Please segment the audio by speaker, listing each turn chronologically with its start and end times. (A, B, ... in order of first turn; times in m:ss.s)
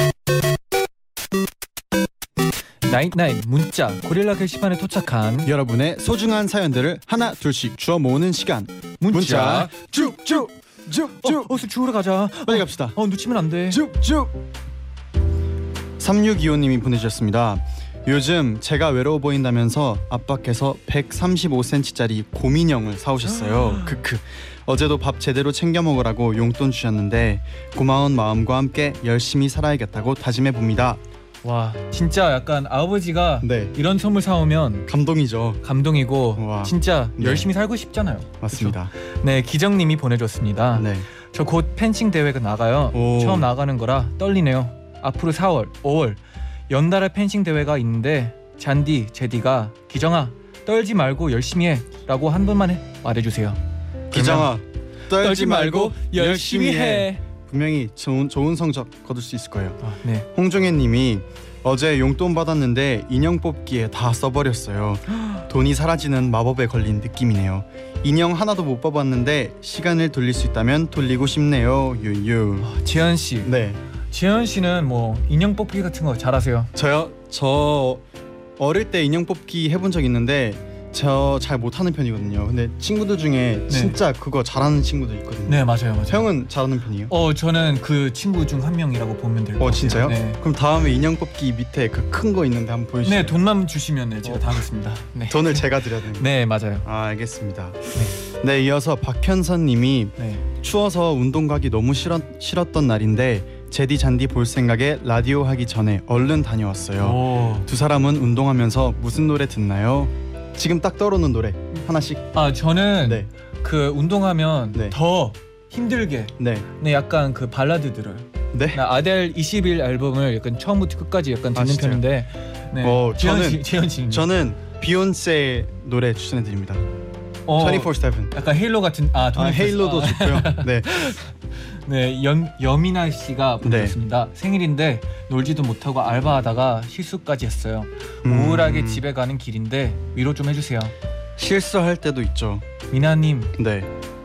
0:02.8-0:05.5 A
0:05.4-0:11.7 B
0:09.0-0:09.8 A
0:11.2-0:13.8 A
0:12.5-0:13.0 B
0:13.7-0:14.4 B
0:16.0-0:31.0 B
0:23.4-0:24.0 A
0:31.4-0:34.9 A
0:33.4-0:33.7 B
0:34.9-0:35.6 B
0:35.6-0:53.6 A
0:36.4-0:37.5 B
0:38.4-0:38.9 B
0:40.7-0:41.1 B
0:42.9-0:43.5 B
0:54.1-0:54.5 A
0:54.1-0:59.8 B
0:55.1-0:57.2 A
0:59.8-1:00.3 A
1:00.3-1:12.7 B
1:12.6-1:13.5 A
1:13.4-1:13.8 B
1:14.1-1:16.7 A
1:16.8-1:18.0 B
1:18.6-1:27.1 B
1:23.7-1:24.0 A
1:25.5-1:26.3 A
1:27.1-1:30.4 A
1:29.6-1:33.4 B
1:33.0-1:36.9 A
1:34.2-1:34.6 B
1:35.3-1:36.3 B
1:36.8-1:52.3 B
1:40.2-1:40.4 A
1:47.0-1:47.7 A
1:52.3-2:04.3 A
1:53.0-1:53.3 B
1:56.4-1:56.7 B
1:58.5-1:58.8 B
2:01.5-2:02.0 B
2:02.8-2:06.8 B
2:07.5-2:20.9 A
2:07.5-2:08.4 B
2:09.3-2:11.1 B
2:13.6-2:14.0 B
2:18.2-2:19.0 B
2:21.4-2:22.6 B
2:22.9-2:23.5 A
2:23.6-2:23.9 B